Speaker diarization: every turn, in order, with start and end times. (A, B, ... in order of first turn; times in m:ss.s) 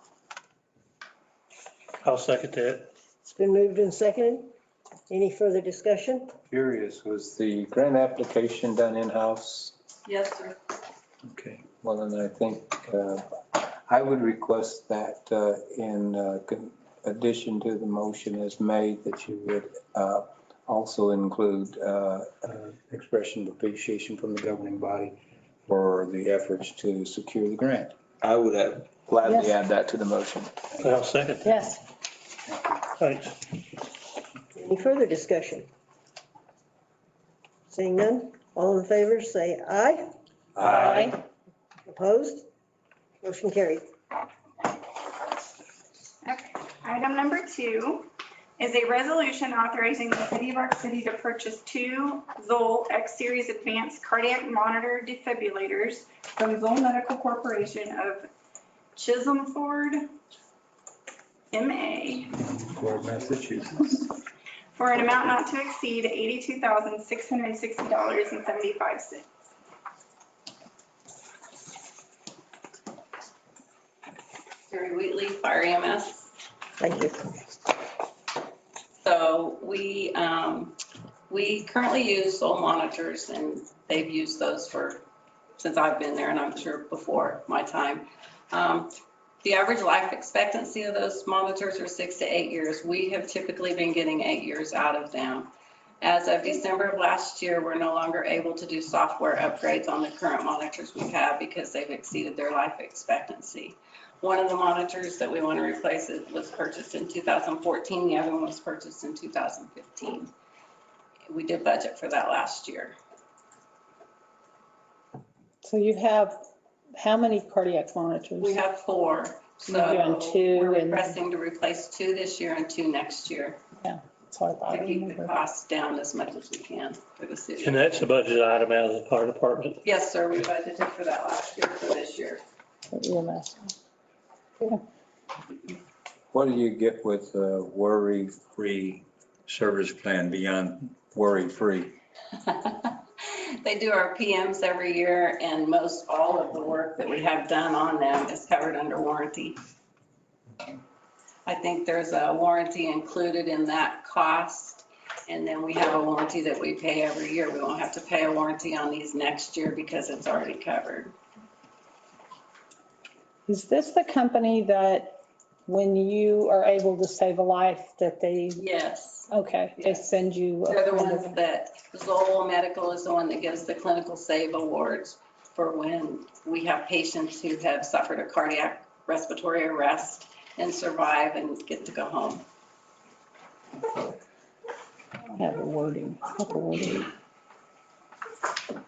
0:02.0-0:02.9 A
0:03.2-0:04.5 B
0:05.1-0:06.3 B
0:06.5-0:09.7 C
0:10.0-0:10.6 D
0:11.3-0:27.9 C
0:28.2-0:30.5 E
0:30.8-0:31.5 A
0:31.4-0:31.8 F
0:33.0-0:33.5 A
0:34.5-0:35.6 B
0:37.7-0:40.0 B
0:40.6-0:41.2 B
0:40.8-0:41.1 F
0:41.9-0:42.4 B
0:43.2-0:43.8 B
0:46.2-0:58.2 G
0:58.9-1:00.1 G
1:01.5-1:02.3 G
1:02.5-1:04.0 C
1:04.7-1:09.2 G
1:14.7-1:16.3 D
1:16.8-1:17.2 B
1:19.0-1:20.8 D
1:21.3-1:25.0 D
1:25.6-1:35.5 D
1:36.0-1:50.3 D
1:51.3-1:53.0 D
1:55.6-1:56.4 F
1:57.0-1:58.6 F
1:58.4-2:03.6 D
1:59.6-2:01.2 F
2:03.8-2:05.4 F
2:04.7-2:07.8 D
2:07.6-2:09.8 A
2:09.8-2:12.4 D
2:12.9-2:13.7 F
2:16.3-2:21.9 C
2:22.5-2:29.6 D
2:31.4-2:41.1 D
2:43.5-2:48.6 F
2:48.6-2:50.1 D
2:49.3-2:51.4 F
2:50.6-3:02.4 D
3:05.3-3:07.1 F